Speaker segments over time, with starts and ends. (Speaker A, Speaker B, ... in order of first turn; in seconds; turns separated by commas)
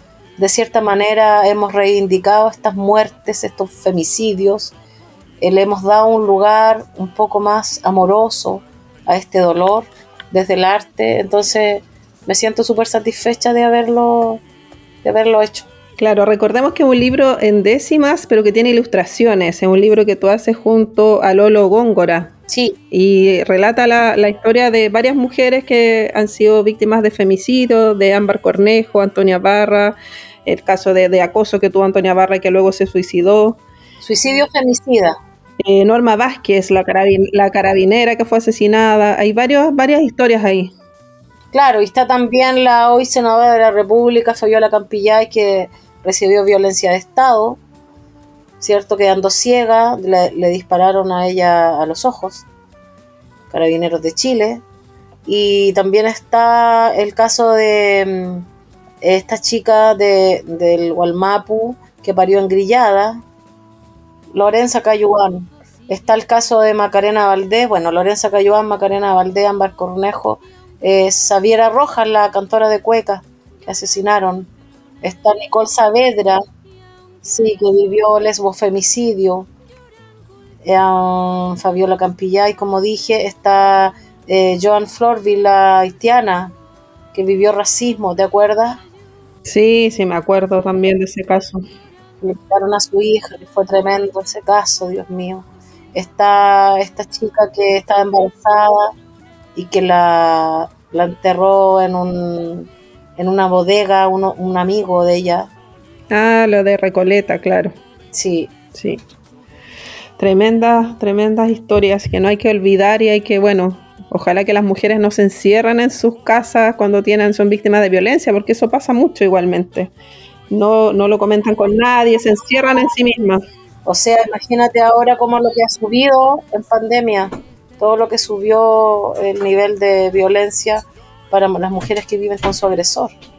Speaker A: 0.4-4.7, Speaker A: 5.4-14.4, Speaker A: 15.0-15.7, Speaker B: 16.0-22.3, Speaker A: 22.5-22.8, Speaker B: 22.9-33.6, Speaker A: 34.0-35.1, Speaker B: 35.6-40.7, Speaker A: 41.5-47.6, Speaker A: 48.6-52.4, Speaker A: 53.5-54.6, Speaker A: 55.2-58.5, Speaker A: 59.0-63.2, Speaker A: 64.3-74.5, Speaker A: 75.0-76.4, Speaker A: 77.2-79.5, Speaker A: 80.6-86.5, Speaker A: 87.1-88.8, Speaker B: 89.4-91.6, Speaker A: 92.2-98.9, Speaker A: 99.5-105.5, Speaker B: 106.1-107.8, Speaker A: 108.1-108.5, Speaker B: 108.7-109.0, Speaker B: 110.2-119.9, Speaker B: 120.5-123.4, Speaker A: 123.8-133.1